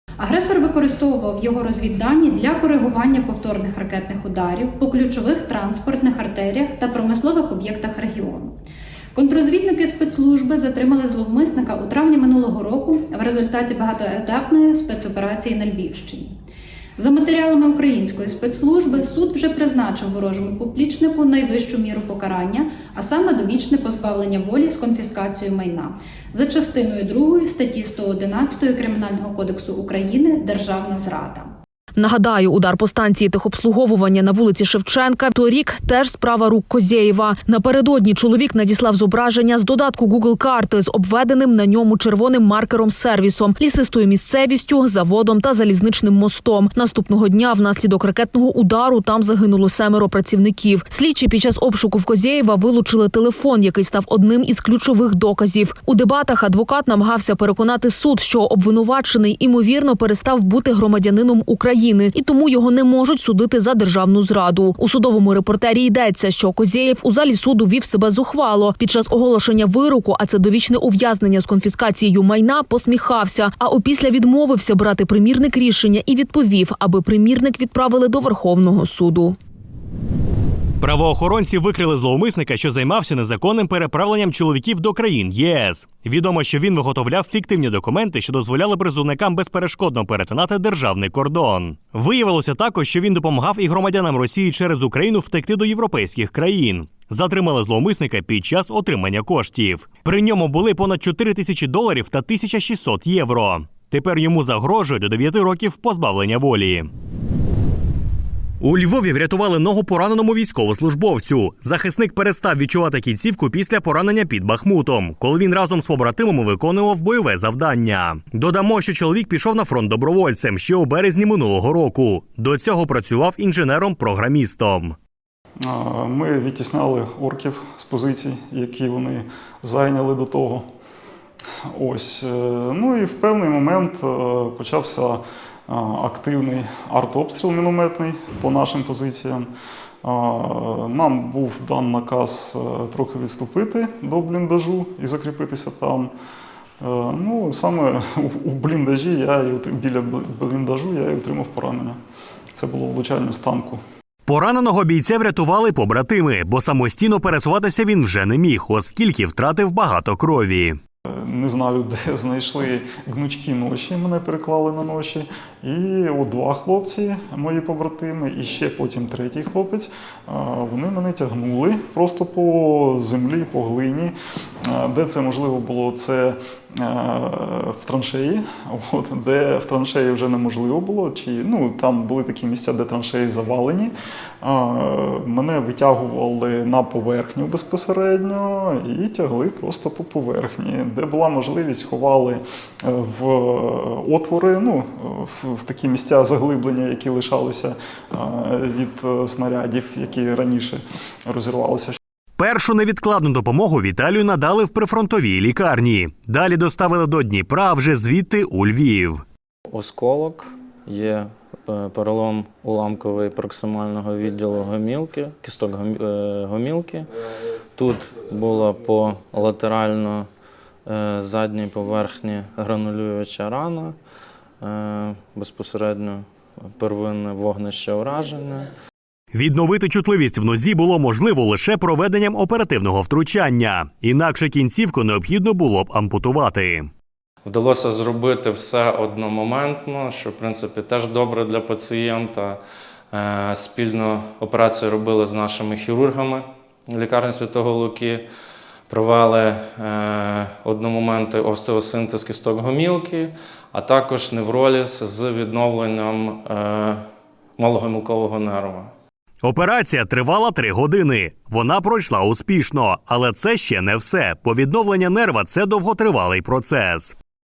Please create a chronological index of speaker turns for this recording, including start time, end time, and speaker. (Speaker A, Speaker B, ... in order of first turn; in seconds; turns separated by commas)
Speaker A: 0.2-8.5, Speaker A: 9.2-16.3, Speaker A: 17.0-31.5, Speaker B: 32.0-79.3, Speaker C: 80.8-106.9, Speaker C: 108.6-125.0, Speaker D: 125.6-130.7, Speaker D: 131.8-139.5, Speaker D: 140.0-146.1, Speaker D: 146.8-152.0, Speaker D: 152.6-153.8, Speaker C: 154.2-160.8, Speaker D: 161.2-174.2, Speaker D: 174.7-202.0, Speaker C: 202.4-209.2, Speaker E: 209.7-217.1, Speaker E: 217.8-220.3, Speaker E: 220.9-223.9, Speaker E: 224.6-226.2, Speaker E: 226.8-228.7, Speaker C: 229.3-236.9, Speaker E: 237.4-242.6, Speaker E: 243.1-248.2, Speaker E: 248.9-257.0, Speaker E: 257.6-258.9, Speaker C: 259.4-267.1